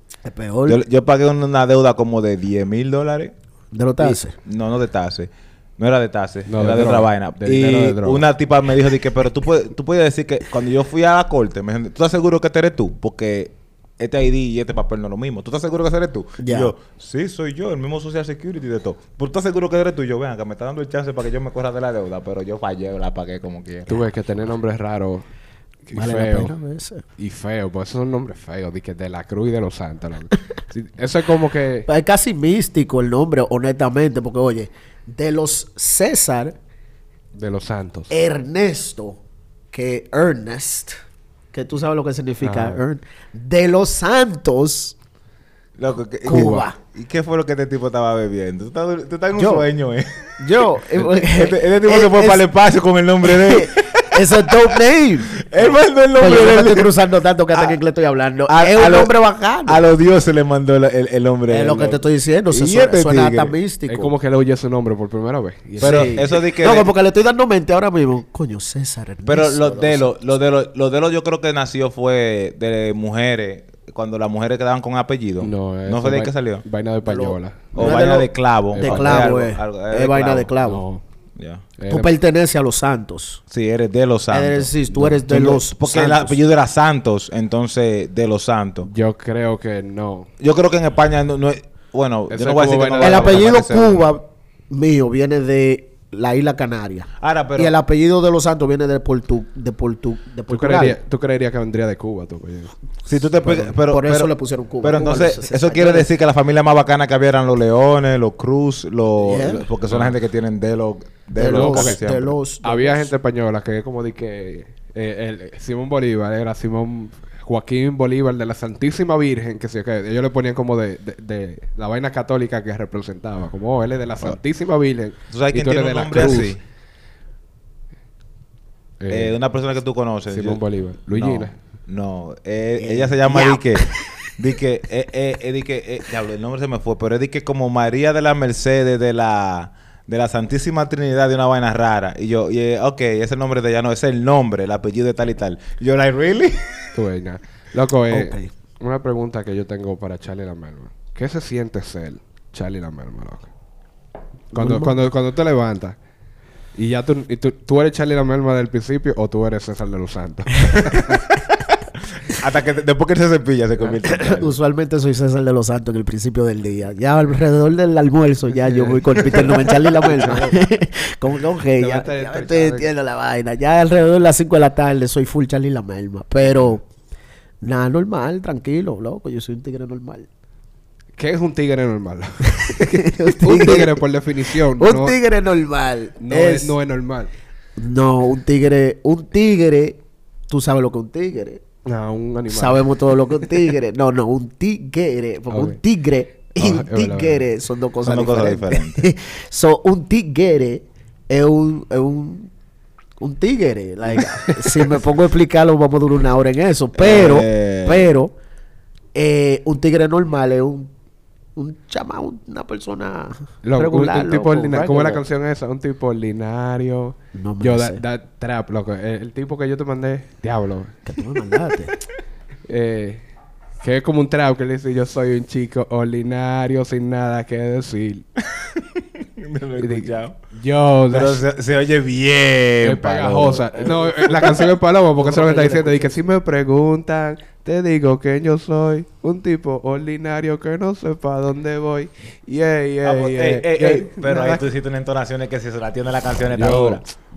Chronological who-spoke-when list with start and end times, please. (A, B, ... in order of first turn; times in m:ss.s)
0:00.2-0:00.8 A
0:00.7-0:03.3 B
0:03.7-0:04.4 A
0:04.0-0:24.0 B
0:06.5-0:08.2 C
0:16.4-0:16.7 A
0:23.9-0:25.3 C
0:25.9-0:26.5 C
0:25.9-0:27.0 A
0:27.2-0:31.9 C
0:31.9-0:36.6 A
0:37.3-0:38.1 C
0:38.1-0:39.2 A
0:39.7-0:41.0 A
0:41.5-0:45.0 A
0:42.4-0:42.8 C
0:45.8-0:54.7 B
0:46.2-0:46.8 A
0:46.3-0:46.6 C
0:49.4-0:49.7 A
0:50.4-0:52.4 A
0:53.2-0:59.8 A
0:55.4-0:56.9 B
0:58.5-0:59.1 B
0:59.7-1:03.5 B
1:01.5-1:04.1 A
1:03.9-1:06.2 C
1:05.8-1:10.1 A
1:05.8-1:06.9 B
1:09.3-1:16.6 B
1:15.4-1:18.0 C
1:17.0-1:20.8 A
1:17.8-1:20.5 B
1:18.7-1:19.3 C
1:20.6-1:21.0 C
1:21.4-1:21.7 B
1:21.8-1:22.1 C
1:21.9-1:23.4 A
1:23.5-1:24.7 B
1:24.3-1:26.4 A
1:25.0-1:25.2 C
1:25.3-1:28.9 B
1:28.8-1:30.3 C
1:30.4-1:34.0 B
1:32.3-1:33.5 C
1:33.0-1:41.0 A
1:37.2-1:37.8 B
1:40.5-1:42.7 C
1:43.1-1:52.4 B
1:43.4-1:46.1 A
1:49.2-1:49.7 A
1:49.9-1:50.2 C
1:51.4-1:53.1 A
1:51.4-1:52.0 C
1:52.6-2:06.6 C
2:05.3-2:06.6 B
2:09.0-2:09.4 C
2:09.1-2:26.9 B
2:10.3-2:11.6 C
2:12.8-2:14.0 A
2:26.9-2:33.5 C
2:28.1-2:28.5 A
2:34.5-2:34.9 A
2:34.6-2:36.0 C
2:36.8-2:41.2 C
2:41.1-2:44.6 B
2:44.1-2:56.8 A
2:48.7-2:50.7 C
2:51.8-2:52.9 C
2:57.6-3:00.3 A
3:01.2-3:05.2 C
3:02.6-3:04.0 A
3:04.8-3:06.8 A
3:06.2-3:07.3 C
3:07.8-3:11.6 A
3:11.9-3:13.5 C
3:12.5-3:22.5 A
3:15.5-3:15.8 C
3:16.6-3:17.4 C
3:18.0-3:19.1 B
3:23.2-3:28.3 A
3:24.4-3:25.0 C
3:27.0-3:28.1 B
3:29.1-3:30.9 A
3:31.6-3:35.2 A
3:33.6-3:41.1 C
3:37.4-3:38.0 A
3:41.1-3:42.0 A
3:42.7-3:43.3 C
3:43.8-3:48.3 C
3:48.5-3:50.4 B
3:49.8-3:51.4 C
3:51.1-3:54.5 B
3:52.8-4:04.6 C
3:53.8-3:56.2 A
4:03.0-4:07.0 B
4:06.5-4:07.0 C